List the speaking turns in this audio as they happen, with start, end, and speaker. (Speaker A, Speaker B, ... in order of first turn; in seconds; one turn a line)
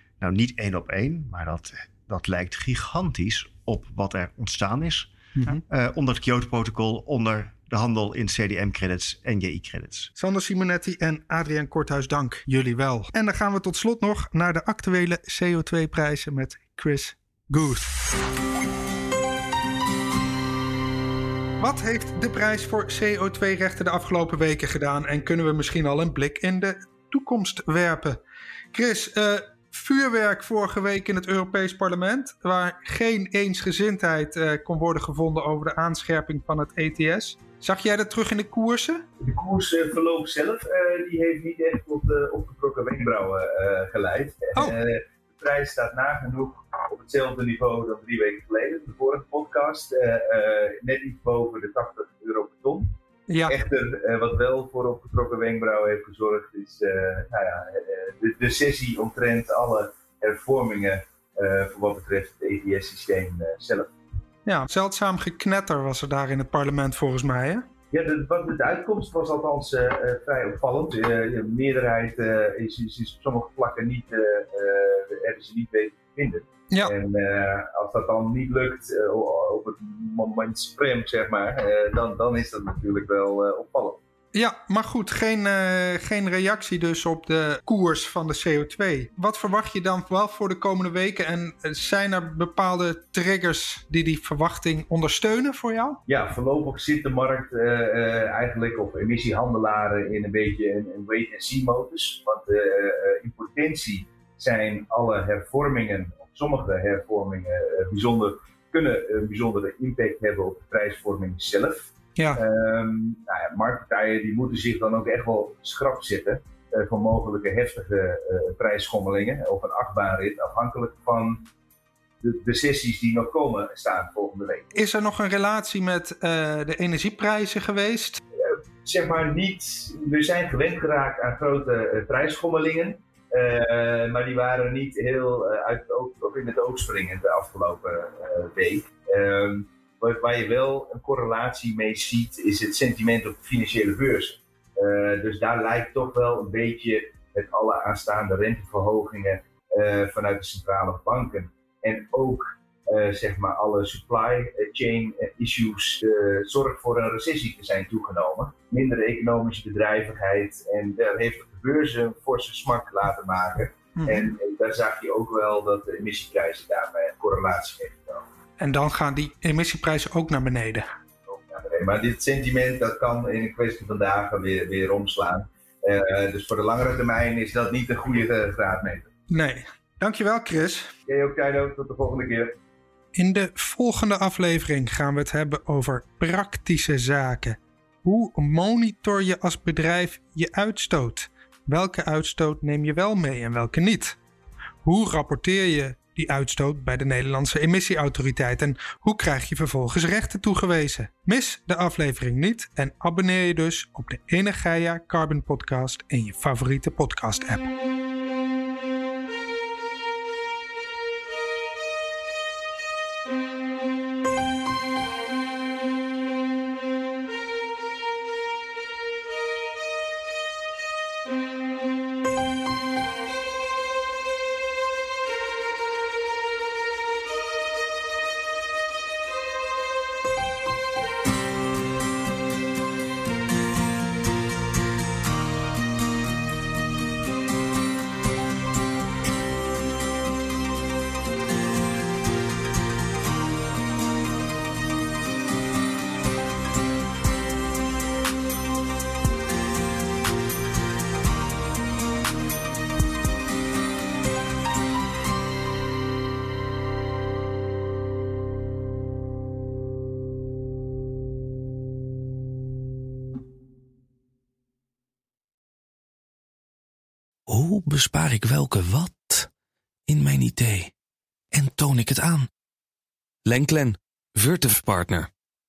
Speaker A: 0.2-5.1
Speaker A: 5.7-10.1
Speaker B: 10.2-17.9
Speaker B: 21.6-28.2
Speaker B: 28.7-39.0
Speaker C: 39.2-52.9
Speaker B: 53.3-53.6
Speaker C: 53.5-63.9
Speaker B: 64.5-67.7
Speaker C: 67.9-84.0
Speaker B: 84.3-96.0
Speaker C: 96.1-121.5
Speaker C: 122.2-124.7
Speaker B: 124.7-128.2
Speaker C: 128.4-168.2
Speaker B: 164.0-164.2
Speaker B: 168.6-170.9
Speaker C: 171.2-179.1
Speaker B: 179.3-180.9
Speaker C: 181.1-182.6
Speaker B: 183.2-194.2
Speaker B: 194.8-207.7
Speaker D: 267.5-269.5
Speaker D: 270.1-270.9
Speaker D: 271.5-272.5
Speaker D: 273.4-275.3